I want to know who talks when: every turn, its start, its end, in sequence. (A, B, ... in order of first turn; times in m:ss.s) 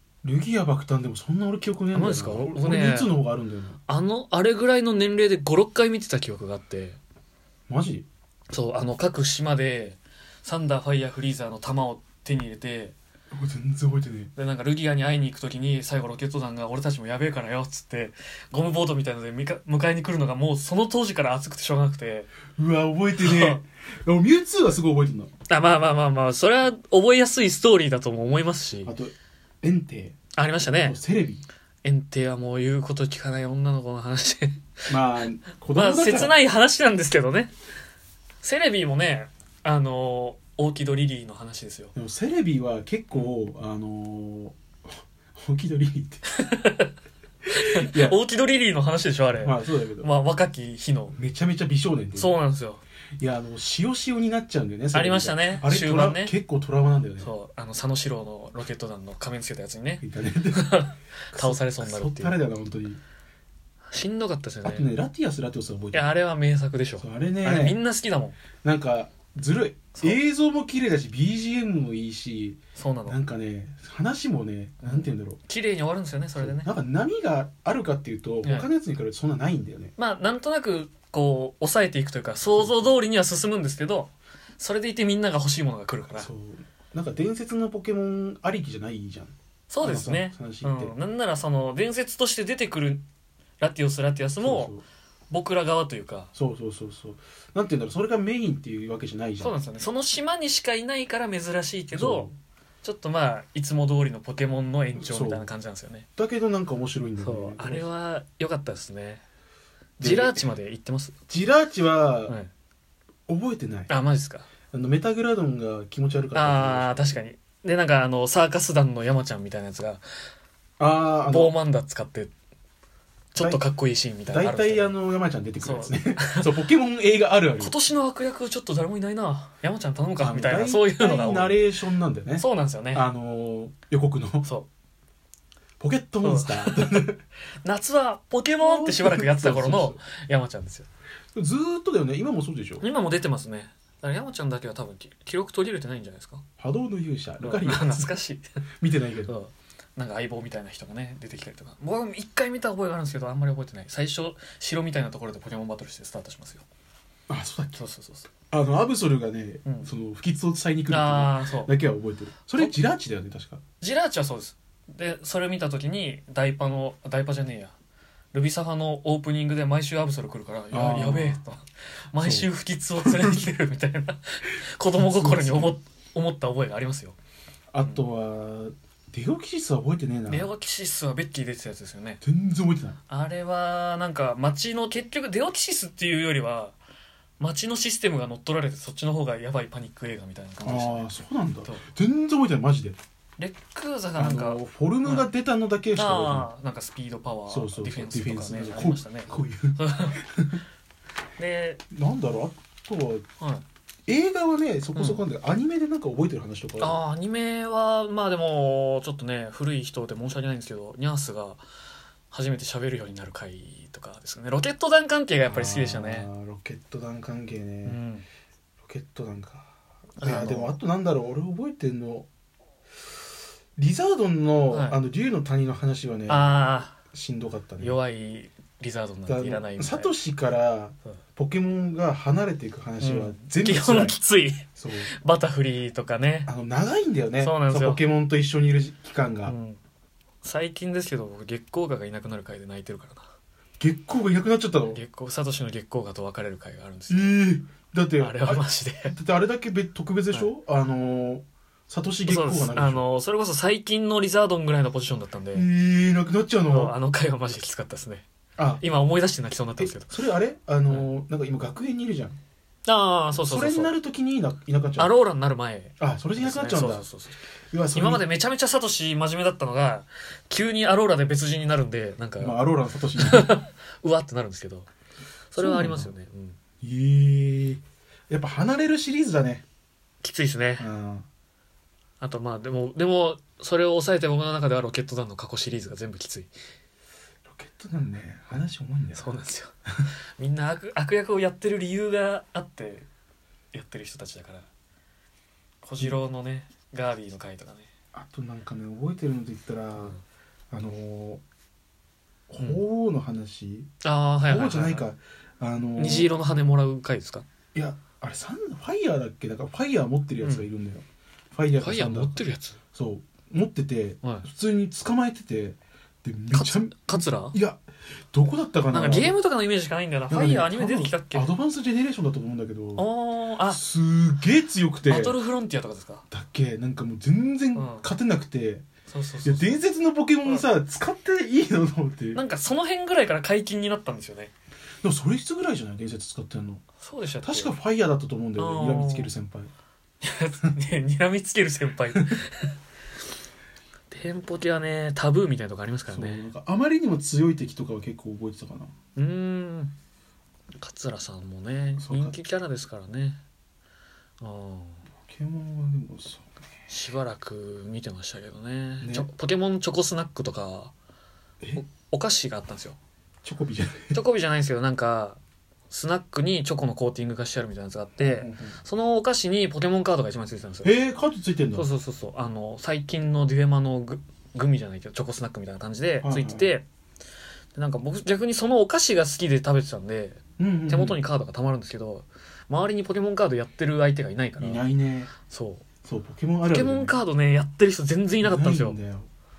0:00.2-0:03.8 A
0:01.9-0:03.1 B
0:03.9-0:07.0 B
0:07.7-0:08.1 A
0:08.5-0:12.9 B
0:13.3-0:14.3 A
0:14.3-0:22.3 B
0:22.5-0:25.3 A
0:23.2-0:23.6 B
0:25.5-0:28.9 B
0:28.8-0:30.2 A
0:30.3-0:31.0 B
0:30.7-0:31.4 A
0:31.8-0:34.9 B
0:34.9-0:36.3 A
0:35.7-0:37.5 B
0:38.4-0:41.9 B
0:41.9-0:46.2 A
0:46.3-0:46.9 B
0:47.5-0:48.2 A
0:47.5-0:51.2 B
0:49.4-0:50.1 A
0:51.1-0:52.3 A
0:52.2-0:52.8 B
0:53.2-0:57.3 A
0:54.9-0:56.3 B
0:57.2-1:02.4 B
1:00.0-1:03.0 A
1:03.9-1:04.9 B
1:04.6-1:06.1 A
1:05.9-1:08.4 B
1:07.0-1:07.8 A
1:08.6-1:15.4 A
1:12.8-1:13.2 B
1:14.9-1:16.7 B
1:16.4-1:19.9 A
1:18.4-1:18.7 B
1:20.0-1:26.3 B
1:22.5-1:22.9 A
1:26.1-1:30.9 A
1:29.7-1:33.0 B
1:33.6-1:34.7 B
1:34.4-1:34.8 A
1:35.3-1:36.3 B
1:36.3-1:39.6 A
1:39.4-1:42.3 B
1:41.9-1:42.3 A
1:42.8-1:46.1 B
1:45.0-1:45.5 A
1:46.2-1:47.9 A
1:47.2-1:49.2 B
1:50.0-1:50.5 A
1:50.0-1:51.1 B
1:51.3-1:52.4 A
1:53.3-1:53.9 A
1:53.9-1:54.5 B
1:54.7-1:57.1 A
1:56.3-2:00.0 B
2:00.8-2:01.6 A
2:01.2-2:02.3 B
2:03.3-2:05.0 B
2:03.4-2:03.6 A
2:04.2-2:07.7 A
2:05.6-2:06.5 B
2:07.6-2:11.7 B
2:10.2-2:14.5 A
2:12.4-2:13.1 B
2:15.8-2:17.2 A
2:16.2-2:17.1 B
2:17.6-2:20.9 B
2:18.6-2:20.0 A
2:21.3-2:22.8 A
2:22.8-2:26.4 B
2:26.6-2:28.1 A
2:27.4-2:28.4 B
2:28.8-2:29.3 A
2:29.2-2:36.6 B
2:37.3-2:37.8 A
2:37.8-2:38.3 B
2:38.5-2:43.6 A
2:39.6-2:39.9 B
2:40.9-2:41.7 B
2:43.8-2:47.7 B
2:48.3-2:57.2 B
2:50.7-2:51.4 A
2:52.2-2:53.5 A
2:54.9-2:55.8 A
2:57.7-3:00.5 A
3:00.3-3:02.2 B
3:02.2-3:03.0 A
3:03.1-3:06.8 B
3:07.4-3:11.9 B
3:10.6-3:13.0 A
3:13.4-3:15.3 B
3:14.2-3:16.5 A
3:15.9-3:20.2 B
3:17.5-3:20.6 A
3:21.4-3:21.8 B
3:21.9-3:23.2 A
3:24.1-3:27.0 A
3:24.9-3:25.2 B
3:26.8-3:31.6 B
3:32.3-3:36.3 B
3:35.4-3:38.0 A
3:37.8-3:38.2 B
3:38.8-3:42.3 A
3:40.2-3:40.7 B
3:43.8-3:48.0 A
3:44.7-3:45.0 B
3:46.3-3:47.0 B
3:47.8-3:50.1 B
3:49.3-3:54.2 A
3:53.0-3:54.6 B
3:54.8-3:55.1 A
3:55.2-3:56.5 B
3:56.5-3:59.6 A
3:57.4-3:58.0 B
3:59.4-3:59.8 B
4:00.4-4:03.3 B
4:03.8-4:05.0 A
4:04.9-4:07.4 B
4:07.1-4:13.0 A
4:08.2-4:09.2 B
4:12.2-4:15.7 B
4:15.5-4:17.0 A
4:16.7-4:18.2 B
4:18.6-4:18.8 A
4:18.8-4:20.2 B
4:19.8-4:22.4 A
4:22.8-4:23.9 B
4:23.4-4:25.2 A
4:25.0-4:27.4 B
4:26.0-4:27.1 A
4:27.7-4:28.2 A
4:27.9-4:32.6 B
4:32.4-4:33.5 A
4:33.2-4:34.9 B
4:35.5-4:36.6 B
4:35.6-4:36.1 A
4:36.8-4:39.6 A
4:40.2-4:40.9 B
4:40.8-4:41.2 A
4:42.2-4:46.5 B
4:47.4-4:49.3 A
4:49.1-4:49.7 B
4:50.4-4:53.1 B
4:53.7-4:54.6 B
4:55.8-4:57.9 B
4:58.1-5:00.2 A
5:00.7-5:01.4 A
5:02.5-5:03.9 A
5:02.6-5:02.8 B
5:04.0-5:05.1 B
5:04.4-5:06.3 A
5:06.0-5:07.4 B
5:07.7-5:19.4 A
5:10.4-5:10.7 B
5:11.7-5:12.8 B
5:16.5-5:17.6 B
5:18.9-5:21.5 B
5:20.3-5:23.1 A
5:23.0-5:23.8 B
5:23.7-5:25.4 A
5:25.0-5:26.2 B
5:26.3-5:28.8 A
5:27.7-5:28.1 B
5:29.1-5:29.8 B
5:29.4-5:32.4 A
5:32.3-5:34.5 B
5:35.0-5:36.8 A
5:37.0-5:37.7 B
5:37.4-5:39.7 A
5:38.6-5:39.3 B
5:40.2-5:42.7 B
5:44.1-5:46.5 B
5:46.1-5:48.9 A
5:49.2-5:49.9 B
5:50.8-5:53.4 B
5:52.0-5:52.4 A
5:54.4-5:55.0 B
5:55.2-5:56.5 A
5:56.9-6:00.9 B
5:59.0-5:59.3 A
6:01.8-6:03.0 B
6:03.4-6:04.2 A
6:04.1-6:05.4 B
6:05.9-6:11.0 B
6:08.2-6:08.8 A
6:10.8-6:11.9 A
6:11.7-6:16.8 B
6:16.2-6:16.7 A
6:17.7-6:24.8 B
6:20.6-6:21.2 A
6:24.6-6:25.3 A
6:25.5-6:25.8 B
6:26.0-6:27.2 A
6:26.6-6:29.0 B
6:28.4-6:29.3 A